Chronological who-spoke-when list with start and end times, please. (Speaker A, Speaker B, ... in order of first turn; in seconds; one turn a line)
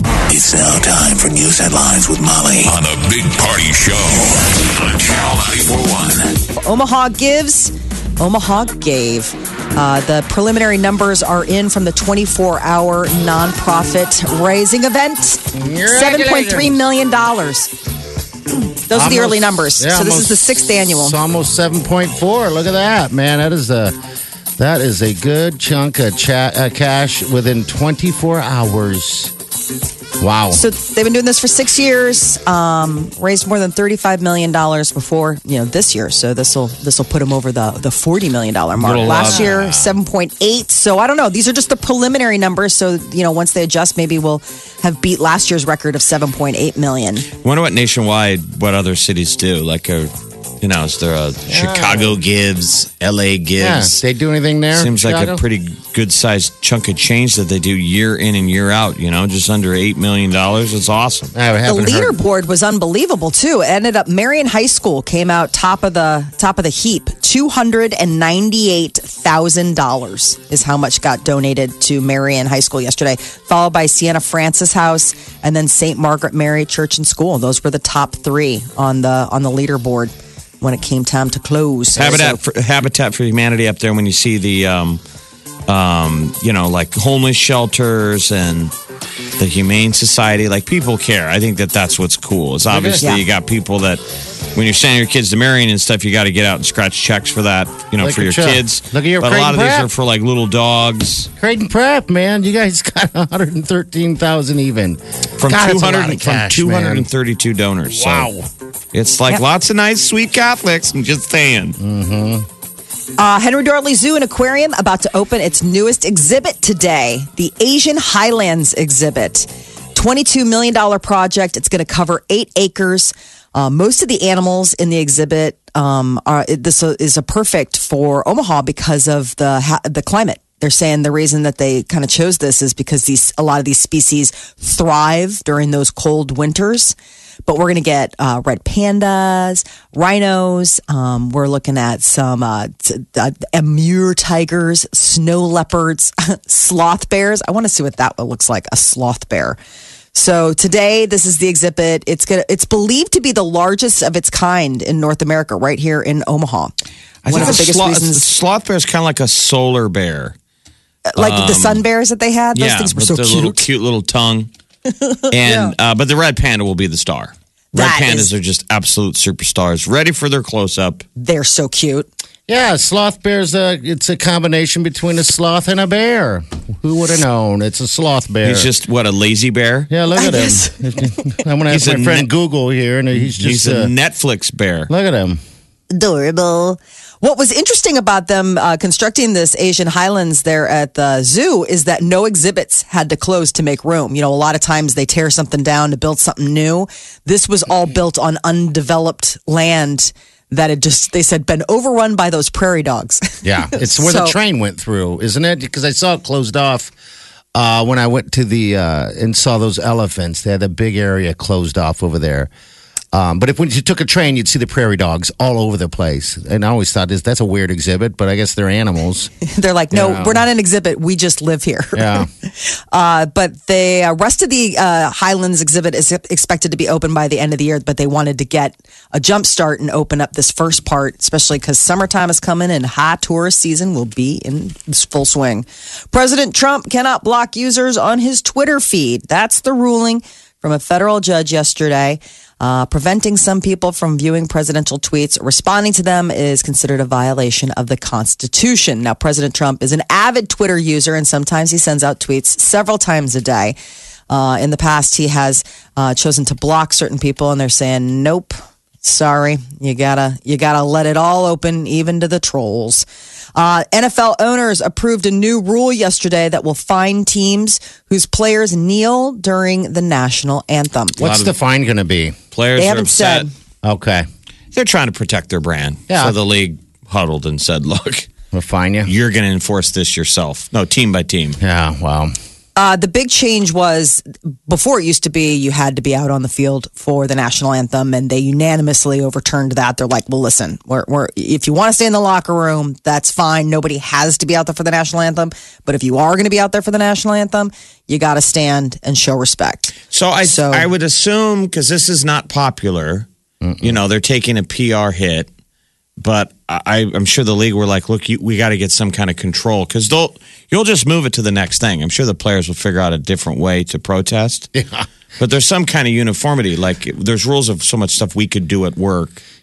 Speaker A: 0.3-6.3
Speaker B: 6.6-17.7
Speaker C: 15.5-16.8
Speaker B: 18.6-21.1
Speaker C: 18.9-24.0
Speaker C: 24.6-29.3
Speaker C: 30.2-30.6
Speaker B: 30.5-47.3
Speaker D: 38.8-39.6
Speaker C: 39.0-40.0
Speaker D: 47.3-54.0
Speaker C: 51.5-52.2
Speaker C: 53.6-55.4
Speaker D: 54.7-61.3
Speaker C: 61.3-62.2
Speaker B: 61.6-82.4
Speaker D: 82.0-85.0
Speaker D: 85.7-88.7
Speaker D: 89.4-94.0
Speaker C: 92.6-93.0
Speaker D: 94.5-101.3
Speaker C: 98.0-99.9
Speaker C: 101.4-107.0
Speaker D: 105.4-108.3
Speaker C: 107.9-108.5
Speaker D: 108.9-111.8
Speaker C: 111.8-112.5
Speaker B: 113.2-136.9
Speaker B: 137.4-149.6
Speaker B: 150.1-156.7
Speaker D: 157.2-160.3
Speaker B: 157.3-158.3
Speaker B: 161.1-163.7
Speaker D: 161.2-161.8
Speaker D: 162.5-164.5
Speaker B: 165.2-165.7
Speaker D: 165.3-171.0
Speaker B: 167.7-168.3
Speaker B: 171.2-172.1
Speaker C: 172.5-178.7
Speaker D: 178.4-179.9
Speaker C: 179.9-183.9
Speaker B: 180.2-180.7
Speaker D: 181.7-182.3
Speaker D: 183.1-184.9
Speaker C: 184.9-185.4
Speaker B: 185.9-204.3
Speaker C: 203.4-206.9
Speaker C: 207.5-212.5
Speaker C: 213.1-219.3
Speaker B: 219.4-253.8
Speaker C: 219.9-220.4
Speaker C: 221.9-222.3
Speaker B: 254.3-271.2
Speaker C: 271.2-272.4
Speaker D: 271.2-271.5
Speaker D: 272.5-273.5
Speaker B: 272.8-273.5
Speaker C: 273.8-274.3
Speaker D: 274.7-278.3
Speaker C: 276.1-276.3
Speaker C: 278.5-279.1
Speaker D: 279.1-281.6
Speaker C: 281.6-282.3
Speaker B: 282.8-300.9
Speaker D: 300.1-303.3
Speaker C: 303.6-304.0
Speaker D: 303.8-305.5
Speaker D: 306.2-314.7
Speaker C: 314.7-315.1
Speaker D: 315.4-319.4